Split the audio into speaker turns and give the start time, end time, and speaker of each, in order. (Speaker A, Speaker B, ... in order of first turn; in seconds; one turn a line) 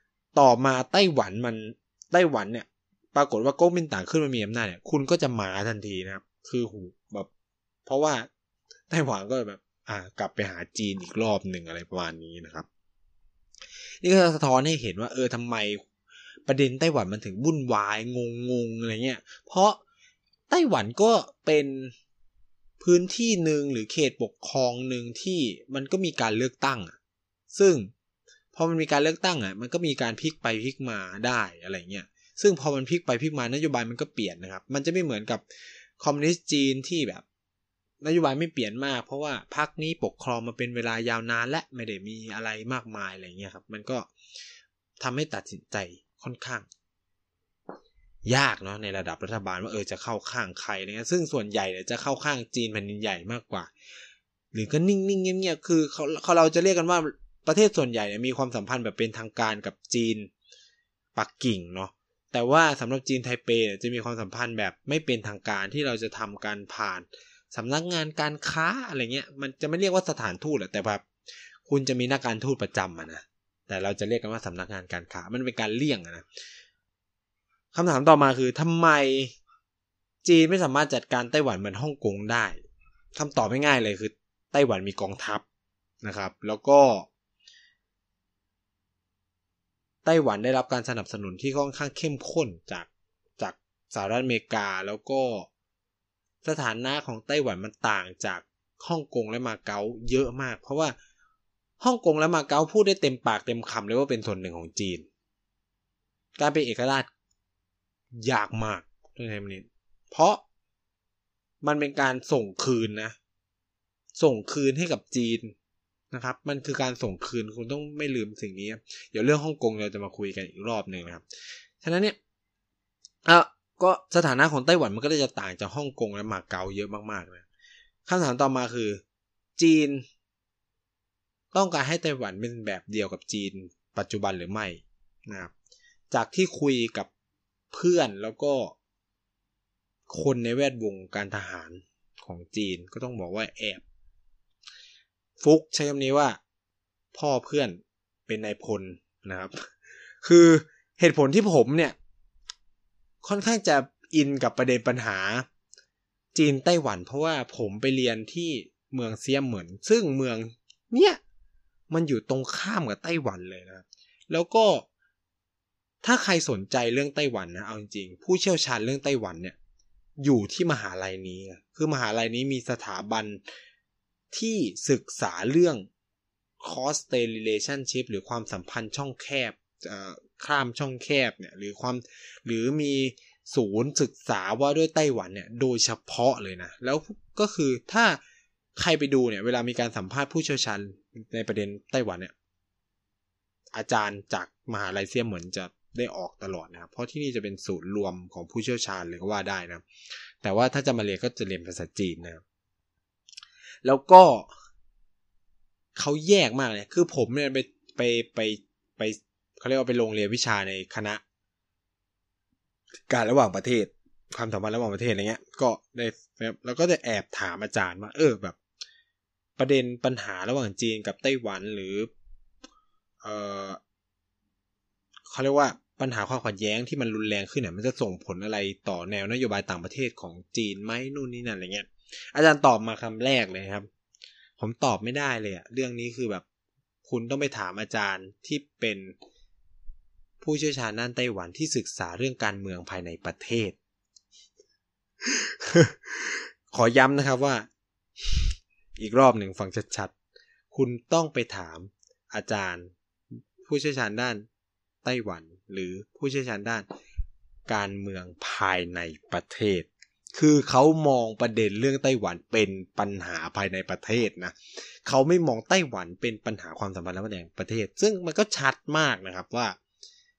Speaker A: 0.3-7.3
Speaker A: 7.9-8.3
Speaker A: 8.9-12.7
Speaker A: 14.0-15.8
Speaker A: 16.5-19.8
Speaker A: 20.5-21.9
Speaker A: 22.8-27.0
Speaker A: 27.5-27.9
Speaker A: 28.5-35.4
Speaker A: 36.0-37.2
Speaker A: 38.0-44.1
Speaker A: 45.0-46.7
Speaker A: 48.3-53.7
Speaker A: 54.5-60.3
Speaker A: 61.1-71.1
Speaker A: 71.7-76.3
Speaker A: 77.7-79.4
Speaker A: 80.2-82.6
Speaker A: 83.2-85.4
Speaker A: 86.0-87.1
Speaker A: 90.0-95.5
Speaker A: 96.4-101.0
Speaker A: 101.8-105.1
Speaker A: 106.4-107.1
Speaker A: 108.2-110.4
Speaker A: 111.6-113.2
Speaker A: 114.2-115.5
Speaker A: 116.1-121.2
Speaker A: 121.8-122.2
Speaker A: 123.2-127.5
Speaker A: 128.1-129.0
Speaker A: 129.6-130.1
Speaker A: 131.5-135.5
Speaker A: 136.1-137.1
Speaker A: 137.7-138.8
Speaker A: 140.1-143.8
Speaker A: 145.4-146.4
Speaker A: 147.1-152.0
Speaker A: 153.2-155.5
Speaker A: 156.3-161.2
Speaker A: 161.9-164.9
Speaker A: 166.0-169.6
Speaker A: 170.2-173.4
Speaker A: 174.3-175.9
Speaker A: 176.6-188.2
Speaker A: 188.8-192.3
Speaker A: 193.7-199.8
Speaker A: 200.4-202.4
Speaker A: 203.8-204.5
Speaker A: 206.0-211.2
Speaker A: 213.1-218.6
Speaker A: 219.6-222.1
Speaker A: 223.2-223.8
Speaker A: 225.3-233.9
Speaker A: 234.6-236.4
Speaker A: 237.1-239.2
Speaker A: 240.4-243.8
Speaker A: 245.2-247.7
Speaker A: 248.2-250.1
Speaker A: 250.7-254.5
Speaker A: 255.0-256.9
Speaker A: 257.7-269.8